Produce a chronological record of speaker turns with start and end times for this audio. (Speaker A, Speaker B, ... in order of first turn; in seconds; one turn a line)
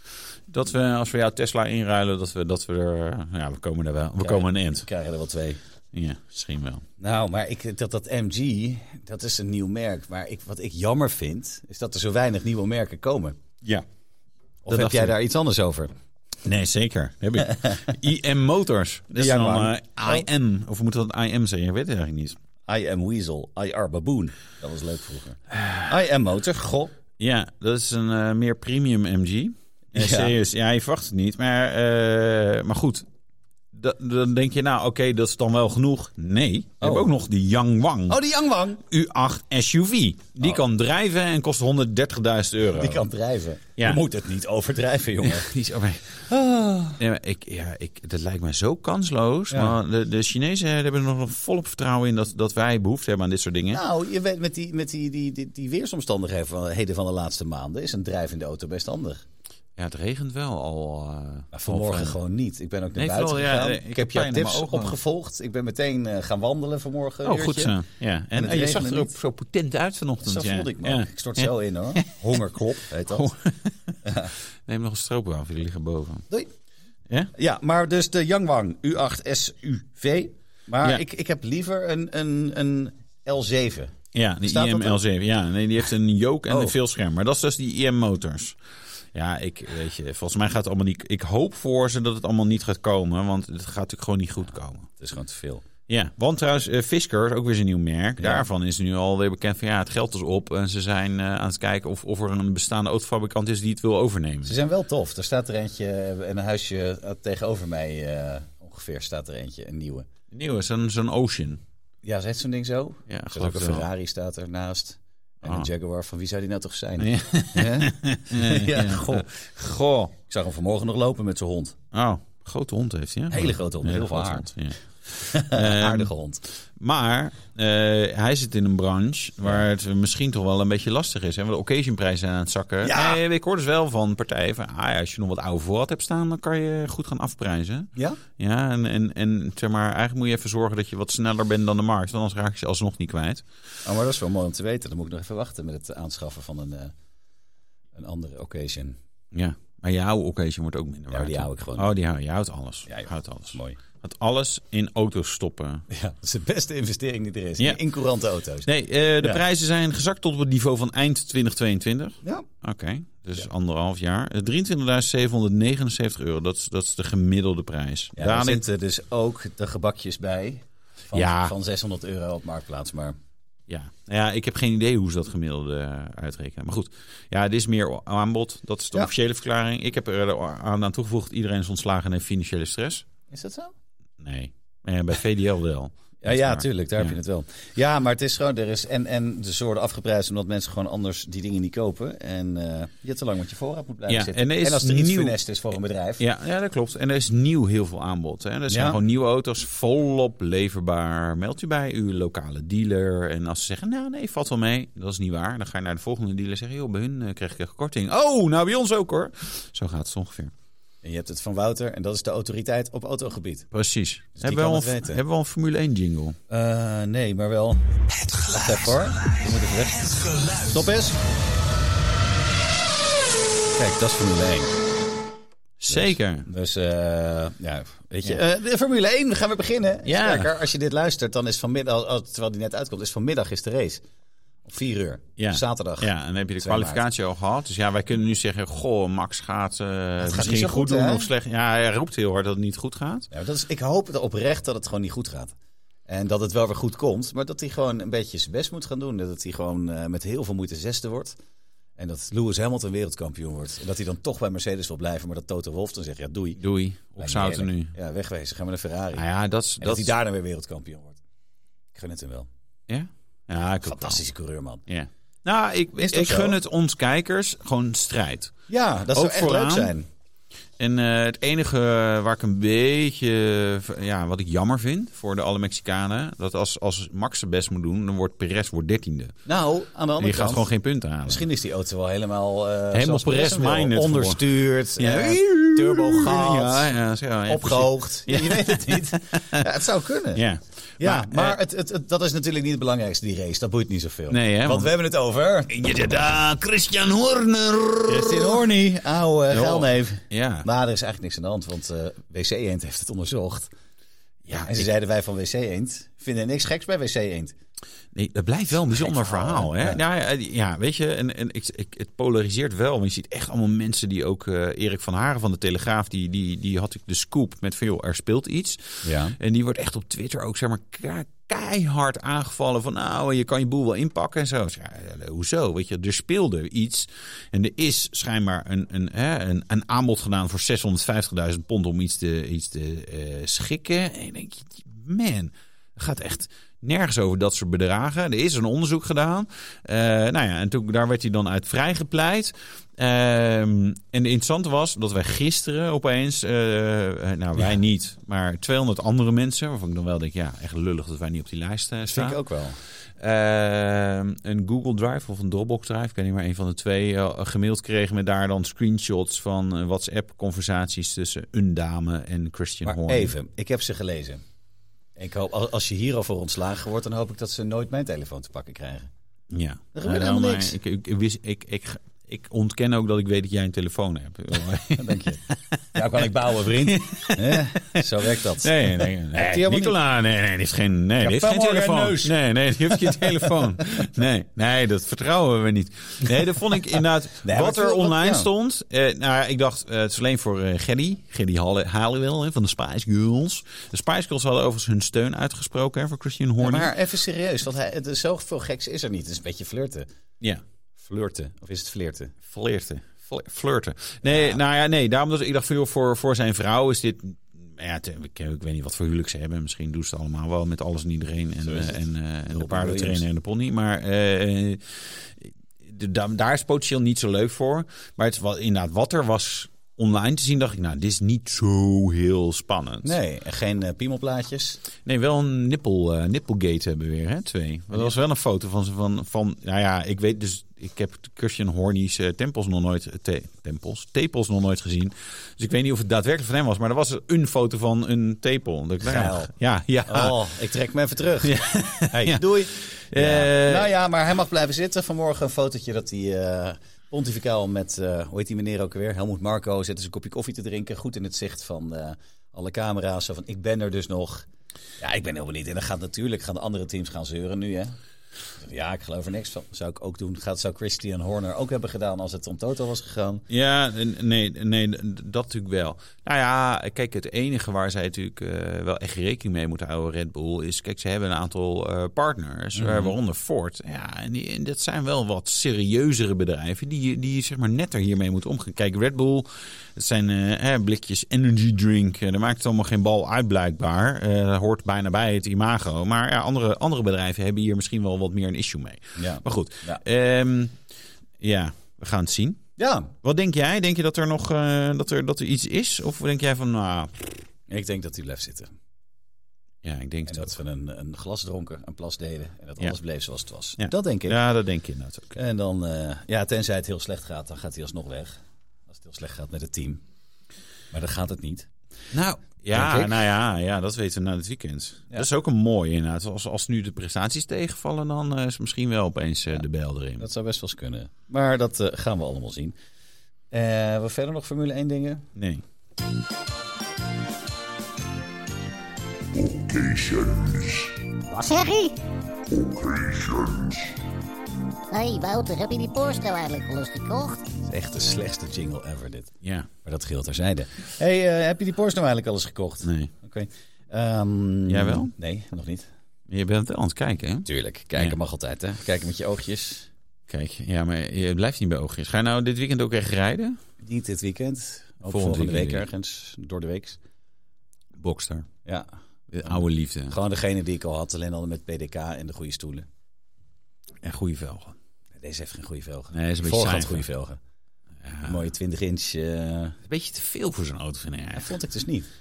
Speaker A: 0.5-4.9
Speaker B: 4.2-5.6
Speaker A: 5.9-6.8
Speaker B: 7.0-13.4
Speaker B: 14.7-15.9
Speaker A: 14.7-15.2
Speaker A: 16.4-22.4
Speaker B: 19.1-20.2
Speaker B: 22.7-26.9
Speaker A: 25.5-25.9
Speaker A: 27.2-33.1
Speaker B: 29.9-30.4
Speaker A: 33.7-38.2
Speaker B: 36.8-37.1
Speaker B: 38.1-38.8
Speaker A: 38.8-43.1
Speaker B: 42.7-45.5
Speaker A: 43.8-44.0
Speaker A: 45.2-46.2
Speaker B: 46.3-47.0
Speaker A: 47.0-53.8
Speaker B: 49.5-49.8
Speaker B: 53.7-59.2
Speaker A: 59.8-62.2
Speaker B: 61.5-67.8
Speaker A: 63.0-65.0
Speaker A: 67.2-74.0
Speaker B: 68.3-69.1
Speaker B: 70.2-73.3
Speaker B: 74.0-74.3
Speaker A: 74.7-76.2
Speaker B: 77.3-85.0
Speaker A: 84.1-88.6
Speaker B: 86.5-86.8
Speaker A: 89.1-94.9
Speaker B: 95.0-95.7
Speaker A: 95.9-104.6
Speaker B: 98.2-98.5
Speaker B: 104.5-110.1
Speaker A: 110.3-111.6
Speaker B: 112.0-119.3
Speaker A: 113.1-113.9
Speaker A: 117.0-120.2
Speaker B: 120.3-121.8
Speaker A: 121.9-126.1
Speaker B: 123.3-124.5
Speaker B: 125.1-126.4
Speaker A: 126.8-143.4
Speaker B: 132.8-133.2
Speaker B: 137.9-138.2
Speaker B: 143.8-146.9
Speaker B: 147.9-149.0
Speaker A: 149.3-155.8
Speaker B: 151.1-151.9
Speaker B: 152.9-153.8
Speaker B: 155.9-158.7
Speaker A: 158.7-168.6
Speaker B: 168.2-173.2
Speaker A: 171.1-171.5
Speaker A: 173.7-183.1
Speaker B: 183.3-183.7
Speaker A: 184.2-187.2
Speaker B: 186.2-196.2
Speaker A: 194.1-195.4
Speaker A: 196.2-210.5
Speaker B: 198.7-199.0
Speaker B: 211.0-213.7
Speaker A: 213.7-216.4
Speaker B: 214.4-215.2
Speaker B: 216.5-217.8
Speaker B: 218.4-221.2
Speaker B: 223.7-224.8
Speaker A: 225.8-226.5
Speaker B: 225.9-234.0
Speaker A: 230.1-230.5
Speaker B: 234.7-237.0
Speaker A: 235.4-243.3
Speaker B: 240.2-241.3
Speaker B: 243.3-245.5
Speaker B: 246.1-251.3
Speaker B: 252.0-256.6
Speaker A: 256.6-257.9
Speaker B: 257.2-259.3
Speaker A: 259.1-260.1
Speaker B: 259.8-261.2
Speaker B: 261.9-262.5
Speaker A: 262.9-264.2
Speaker B: 263.8-264.9
Speaker A: 264.9-268.5
Speaker B: 266.0-266.6
Speaker B: 268.7-270.1
Speaker A: 269.1-269.9
Speaker A: 270.8-279.4
Speaker B: 279.5-280.7
Speaker A: 280.2-281.5
Speaker B: 281.3-286.9
Speaker A: 282.9-289.7
Speaker B: 287.5-290.5
Speaker A: 290.4-291.6
Speaker B: 291.0-295.7
Speaker A: 294.3-294.9
Speaker A: 295.7-298.7
Speaker B: 298.1-303.7
Speaker A: 299.5-300.7
Speaker A: 304.5-304.9
Speaker B: 304.5-307.5
Speaker A: 308.1-352.4
Speaker B: 308.9-310.0
Speaker B: 319.0-319.4
Speaker B: 352.1-352.8
Speaker A: 353.2-363.3
Speaker B: 362.9-364.4
Speaker B: 365.2-369.1
Speaker A: 369.5-396.9
Speaker B: 369.9-370.8
Speaker B: 374.9-380.0
Speaker B: 381.2-383.7
Speaker B: 387.4-388.5
Speaker B: 396.6-400.1
Speaker B: 401.0-402.3
Speaker A: 402.5-423.2
Speaker B: 404.2-404.6
Speaker B: 411.6-413.2
Speaker B: 423.0-424.8
Speaker A: 425.1-440.4
Speaker B: 439.0-439.5
Speaker B: 440.1-454.5
Speaker A: 441.4-443.9
Speaker B: 455.0-457.9
Speaker B: 458.6-463.4
Speaker A: 463.5-490.8
Speaker B: 472.8-473.1
Speaker B: 489.2-490.0
Speaker A: 491.4-492.6
Speaker B: 492.8-493.1
Speaker A: 493.2-497.1
Speaker B: 497.7-498.7
Speaker A: 499.8-500.6
Speaker B: 500.3-504.4
Speaker A: 503.8-505.4
Speaker B: 505.4-508.4
Speaker B: 508.9-510.0
Speaker B: 510.9-511.7
Speaker A: 512.1-520.3
Speaker B: 512.7-513.2
Speaker B: 520.2-522.8
Speaker B: 523.5-525.3
Speaker A: 525.4-525.6
Speaker B: 529.6-530.3
Speaker A: 529.9-530.8
Speaker C: 531.3-532.0
Speaker C: 534.9-537.4
Speaker B: 537.6-545.9
Speaker A: 539.4-539.7
Speaker A: 542.8-543.1
Speaker A: 544.7-545.1
Speaker A: 546.3-548.2
Speaker B: 547.5-549.9
Speaker A: 550.3-553.6
Speaker B: 553.8-557.0
Speaker A: 555.1-555.9
Speaker A: 558.0-558.5
Speaker A: 559.3-560.2
Speaker B: 559.4-562.9
Speaker A: 564.0-564.8
Speaker B: 565.2-567.4
Speaker A: 566.1-567.1
Speaker A: 568.0-568.4
Speaker B: 568.2-569.8
Speaker A: 569.9-571.6
Speaker B: 571.3-572.1